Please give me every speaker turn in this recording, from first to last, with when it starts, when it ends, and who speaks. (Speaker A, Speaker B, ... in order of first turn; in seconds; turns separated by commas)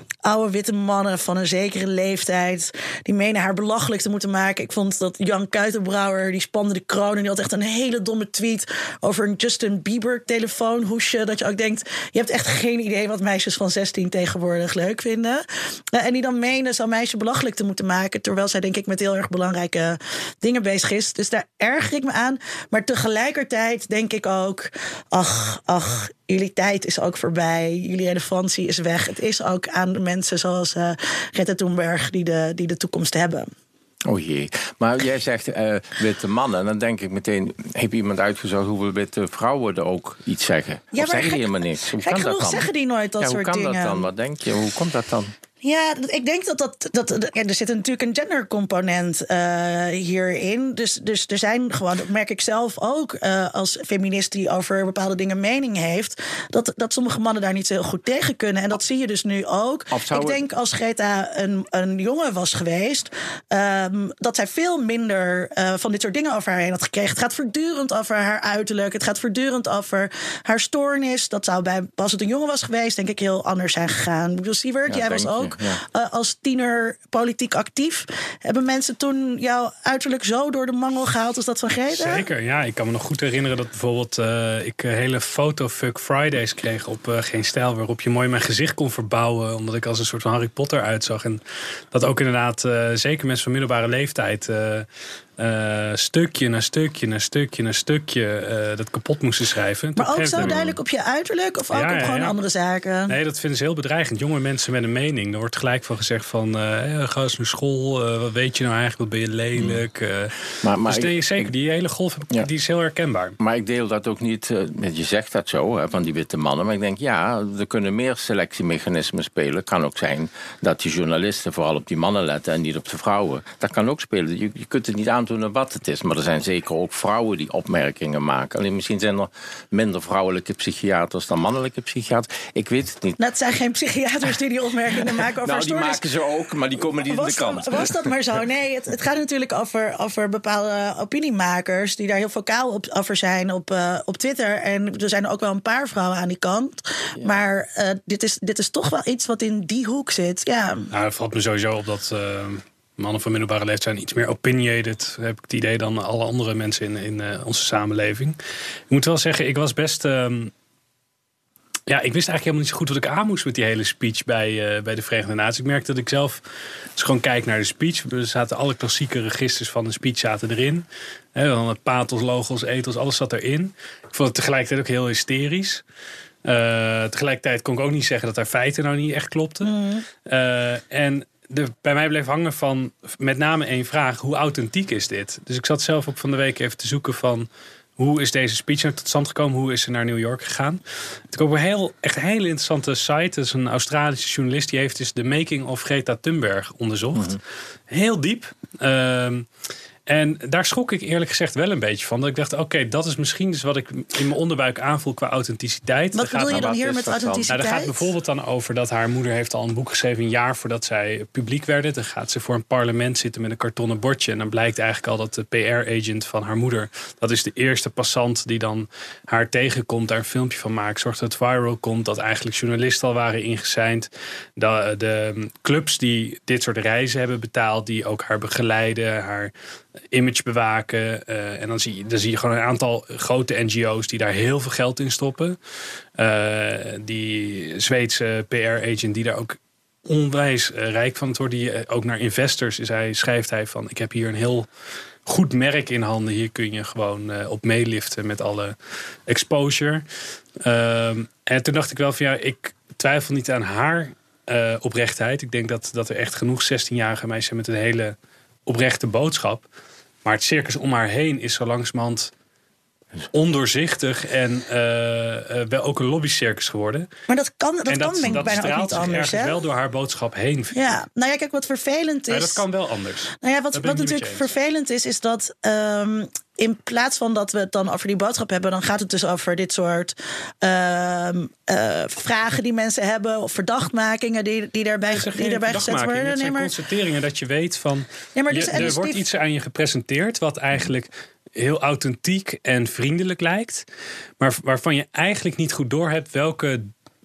Speaker A: 0.2-33.5, Speaker B: 34.1-45.3, Speaker A: 40.9-44.1, Speaker A: 45.6-82.3, Speaker B: 59.9-60.4, Speaker B: 74.9-75.8, Speaker C: 81.9-91.4, Speaker C: 91.9-94.9, Speaker C: 95.4-100.6, Speaker A: 100.0-103.1, Speaker B: 100.3-100.8, Speaker C: 101.7-102.4, Speaker C: 103.1-113.4, Speaker B: 109.6-109.8, Speaker B: 110.6-111.5, Speaker B: 113.4-133.2, Speaker A: 133.2-136.1, Speaker B: 135.4-138.1, Speaker A: 136.8-150.9, Speaker C: 150.9-158.4, Speaker C: 158.9-160.5, Speaker C: 161.9-166.4, Speaker C: 167.0-175.8, Speaker C: 176.4-179.7, Speaker A: 179.6-180.1, Speaker C: 180.3-190.8, Speaker C: 191.3-197.4, Speaker C: 197.9-199.5, Speaker C: 200.1-229.5, Speaker A: 206.2-208.1, Speaker B: 206.4-207.6, Speaker C: 230.1-235.6, Speaker C: 236.2-239.6, Speaker C: 240.1-244.7, Speaker C: 245.3-248.8, Speaker C: 249.3-250.0, Speaker C: 250.6-259.6, Speaker C: 260.2-262.3, Speaker C: 263.3-267.1, Speaker A: 267.3-269.6, Speaker C: 267.9-271.0, Speaker B: 268.2-268.7, Speaker A: 270.7-272.6, Speaker C: 272.3-274.5, Speaker A: 273.4-286.7, Speaker C: 285.1-293.8, Speaker A: 288.4-289.2, Speaker C: 294.4-296.9